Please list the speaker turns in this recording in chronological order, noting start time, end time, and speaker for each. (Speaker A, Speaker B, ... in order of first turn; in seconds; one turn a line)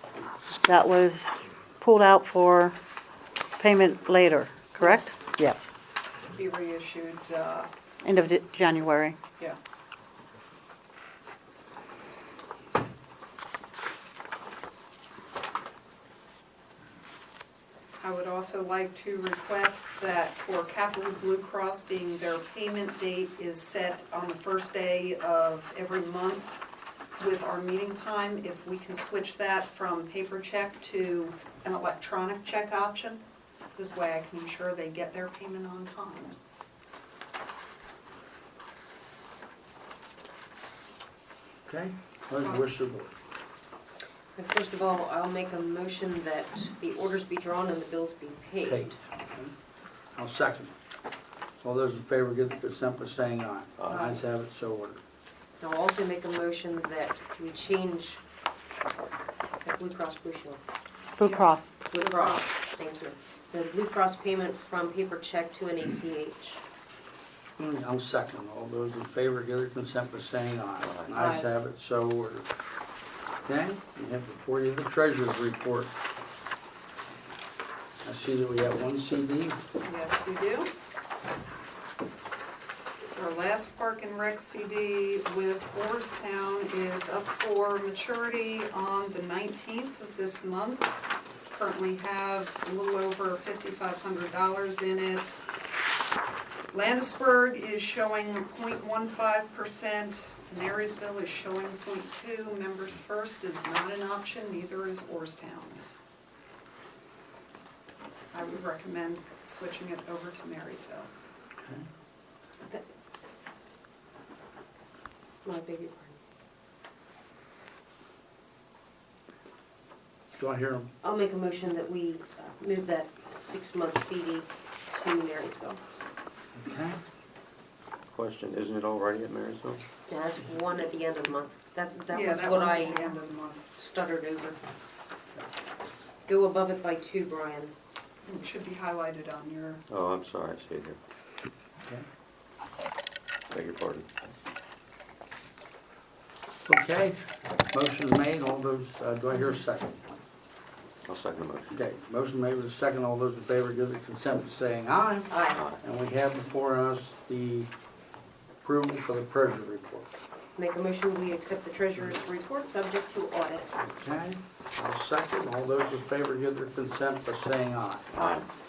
Speaker A: 0.7-2.8
Speaker A: 3.6-5.7
Speaker B: 4.8-5.2
Speaker B: 6.3-7.7
Speaker A: 8.0-9.2
Speaker B: 18.0-26.6
Speaker B: 27.2-33.2
Speaker B: 33.8-36.4
Speaker C: 41.7-43.1
Speaker B: 42.4-42.7
Speaker D: 44.4-49.0
Speaker C: 48.6-49.5
Speaker C: 50.1-50.7
Speaker C: 51.6-55.0
Speaker E: 53.8-54.1
Speaker D: 55.6-58.2
Speaker D: 59.6-60.6
Speaker A: 61.2-61.8
Speaker D: 61.3-66.6
Speaker B: 62.1-62.4
Speaker C: 67.6-72.5
Speaker E: 70.8-71.1
Speaker D: 71.2-71.5
Speaker C: 73.5-75.9
Speaker C: 78.0-79.6
Speaker B: 79.8-80.7
Speaker B: 83.0-90.9
Speaker B: 91.5-95.4
Speaker B: 96.7-105.8
Speaker B: 108.3-111.1
Speaker C: 111.6-111.9
Speaker D: 115.4-116.2
Speaker C: 120.4-120.9
Speaker D: 121.0-125.8
Speaker C: 126.6-127.0
Speaker E: 128.1-129.8
Speaker D: 130.1-133.2
Speaker B: 132.1-133.6
Speaker D: 133.8-134.6
Speaker D: 136.3-137.7
Speaker B: 138.3-139.8
Speaker E: 139.9-141.0
Speaker E: 143.5-144.1
Speaker C: 146.7-147.2
Speaker C: 147.7-150.0
Speaker E: 151.1-151.8
Speaker C: 151.7-157.7
Speaker D: 155.3-155.6
Speaker E: 155.5-155.8
Speaker C: 158.6-160.1
Speaker D: 160.6-163.7
Speaker C: 163.8-168.1
Speaker E: 168.2-168.4